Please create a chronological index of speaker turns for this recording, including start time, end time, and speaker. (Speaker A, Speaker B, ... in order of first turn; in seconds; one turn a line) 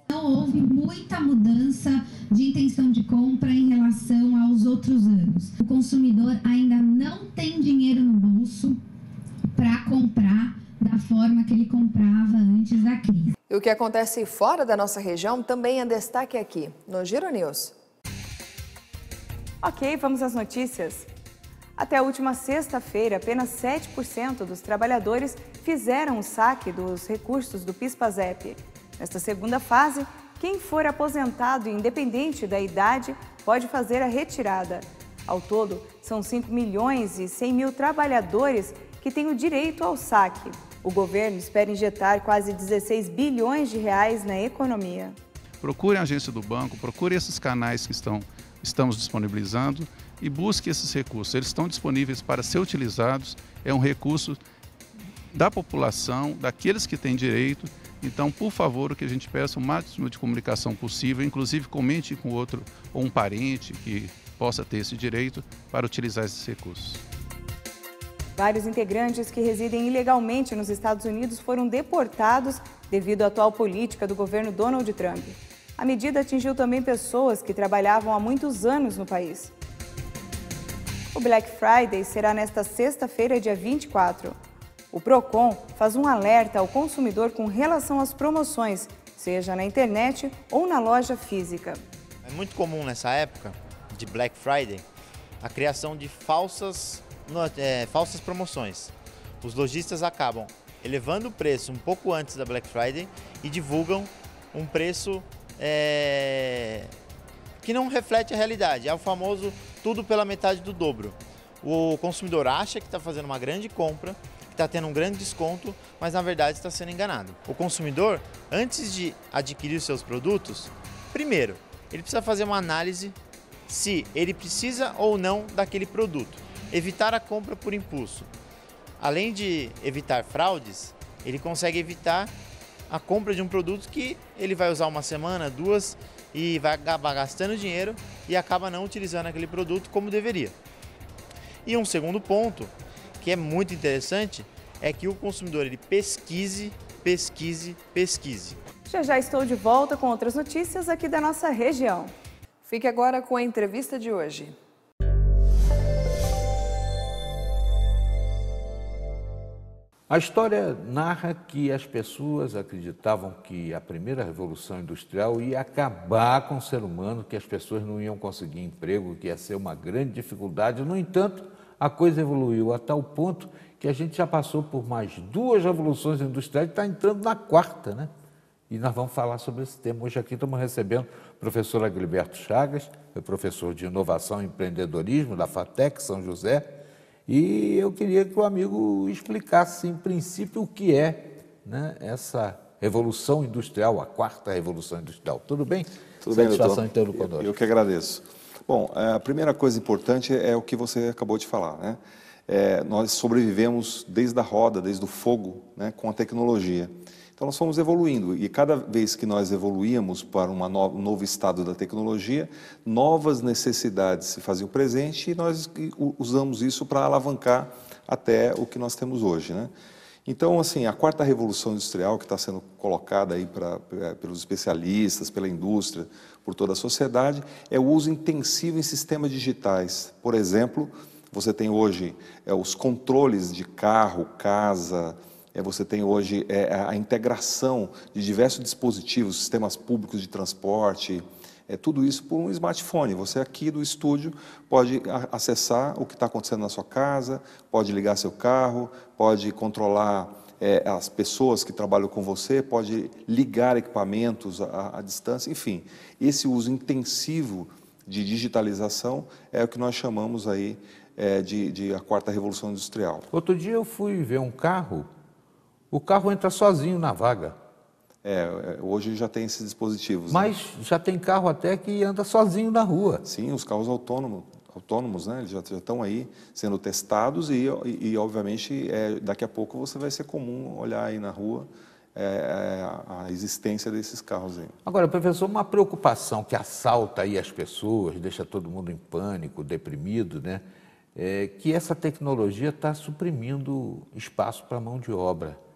Speaker A: 0.1-8.8
Speaker A: 9.5-13.3
Speaker B: 13.5-17.7
Speaker C: 19.6-21.1
Speaker C: 21.8-45.2
Speaker D: 45.6-54.4
Speaker D: 55.3-67.0
Speaker C: 68.4-79.5
Speaker C: 81.1-84.3
Speaker C: 84.9-91.8
Speaker E: 92.2-94.8
Speaker E: 95.4-106.9
Speaker E: 107.6-128.3
Speaker E: 129.0-132.3
Speaker E: 132.9-140.6
Speaker E: 141.6-148.6
Speaker C: 148.8-152.1
Speaker B: 152.7-154.5
Speaker F: 160.1-178.1
Speaker F: 178.7-186.8
Speaker F: 187.3-197.5
Speaker G: 196.2-219.7
Speaker G: 220.2-263.3
Speaker F: 263.3-265.1
Speaker F: 265.9-267.6
Speaker G: 268.2-270.5
Speaker F: 270.3-273.2
Speaker G: 273.2-284.7
Speaker F: 284.8-290.6
Speaker F: 291.1-295.6